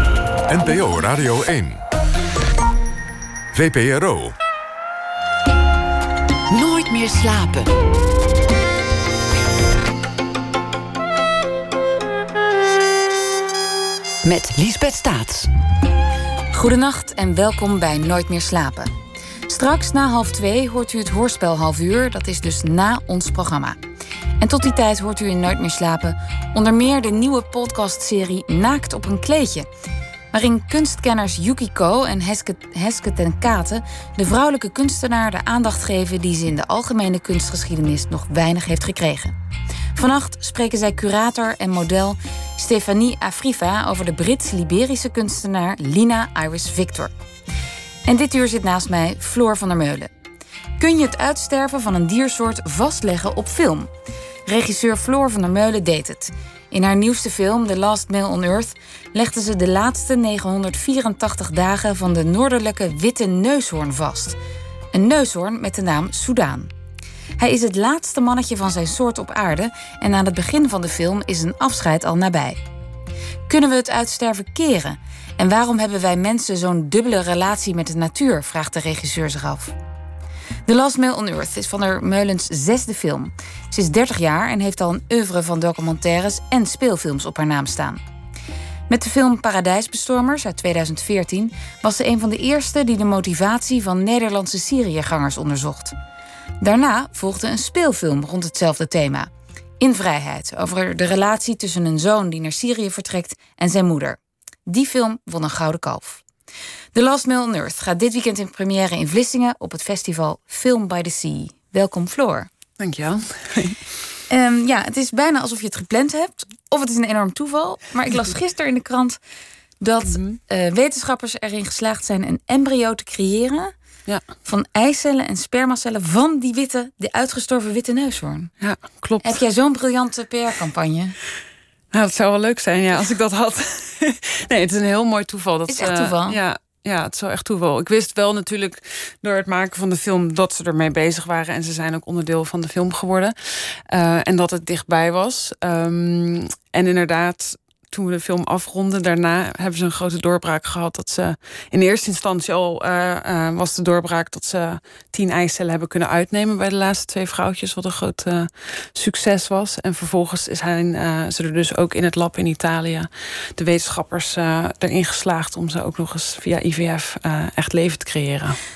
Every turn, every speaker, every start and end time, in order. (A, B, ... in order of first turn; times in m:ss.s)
0:00.5-0:01.8 A
0:03.5-0:04.4 A
0:06.5-0:07.7 B
0:14.2-0:15.5 B
0:16.5-0:18.9 C
0:19.5-0:23.8 C
0:24.4-0:29.7 C
0:30.3-0:39.3 C
0:40.0-0:47.1 C
0:48.0-0:50.1 C
0:50.8-0:53.9 C
0:54.4-1:04.4 C
1:04.9-1:06.7 C
1:07.4-1:12.6 C
1:13.5-1:19.7 C
1:20.7-1:28.0 C
1:28.9-1:35.9 C
1:36.6-1:46.2 C
1:46.9-1:52.5 C
1:52.8-1:53.8 D
1:54.3-1:59.2 C
1:59.8-2:03.7 C
2:00.1-2:00.4 D
2:04.4-2:08.5 C
2:08.6-2:09.4 D
2:09.2-2:11.2 C
2:11.9-2:48.6 D
2:15.7-2:16.4 C